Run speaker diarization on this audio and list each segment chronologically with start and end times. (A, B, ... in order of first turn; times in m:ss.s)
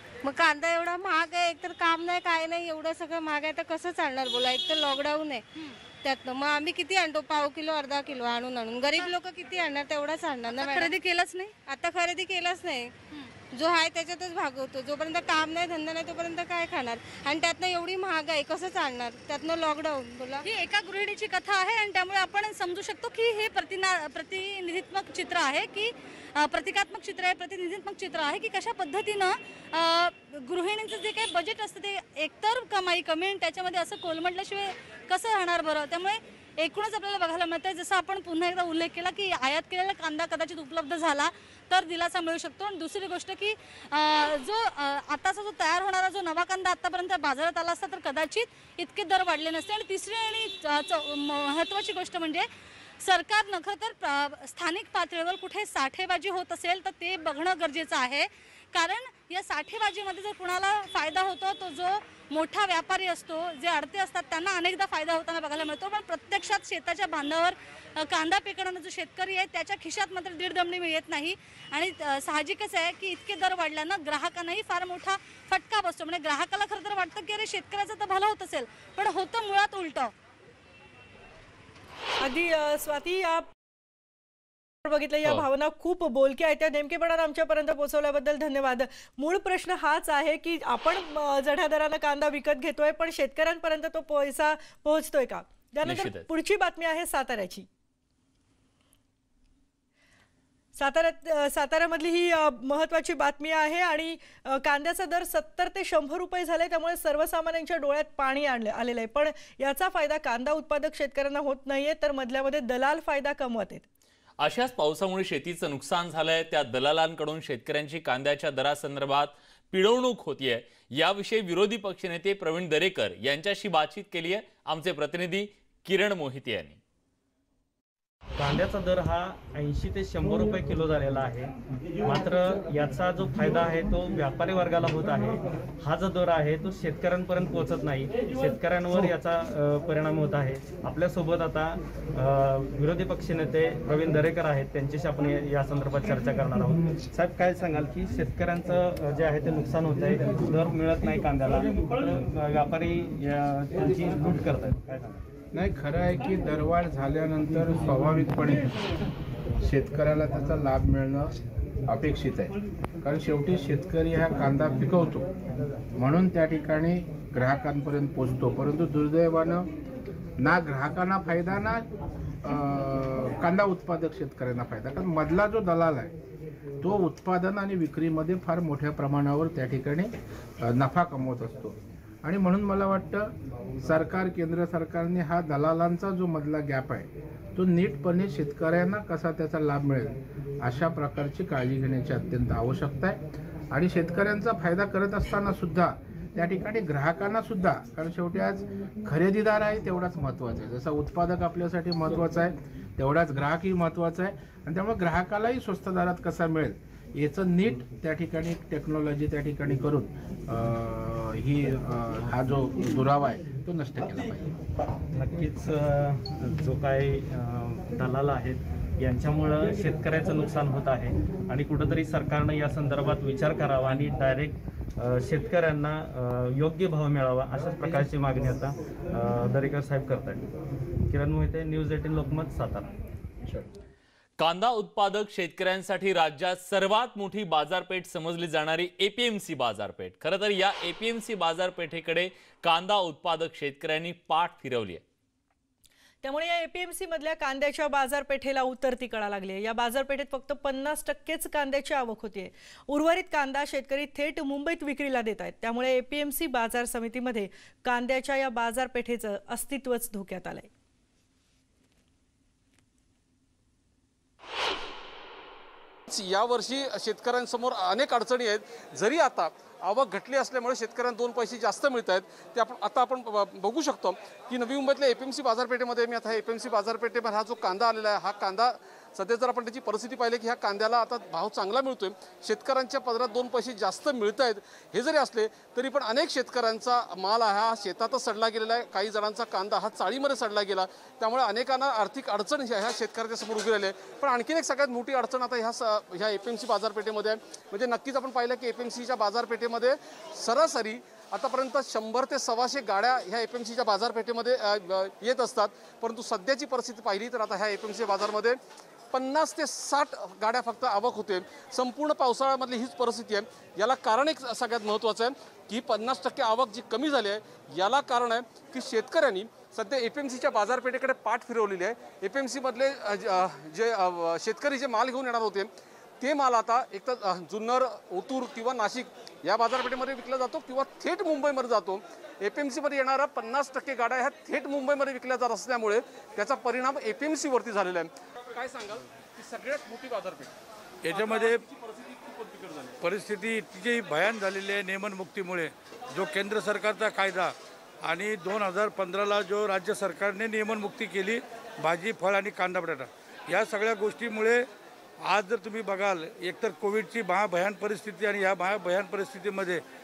0:00.2-0:10.9 A
0:05.6-0:05.8 B
0:10.5-0:11.5 B
0:11.7-0:12.9 A
0:13.5-0:20.4 A
0:20.4-0:52.5 B
0:53.0-1:20.1 B
1:22.2-1:23.5 C
1:24.8-1:37.7 C
1:35.8-1:36.3 D
1:40.8-1:53.9 C
1:54.4-2:06.8 D
2:08.4-2:11.5 E
2:12.0-2:35.2 E
2:35.5-2:38.8 F
2:39.6-2:41.4 F
2:41.9-2:45.4 F
2:46.0-2:49.7 F
2:50.4-2:51.9 F
2:52.4-2:56.1 F
2:56.8-3:34.6 F
3:35.2-3:50.5 E
3:51.1-3:52.9 E
3:54.4-4:05.0 D
4:06.2-4:20.7 C
4:26.1-5:08.6 G
5:09.1-5:40.5 G
5:41.0-5:41.6 H
5:41.1-5:43.0 G
5:43.0-5:54.7 H
5:55.2-5:59.8 H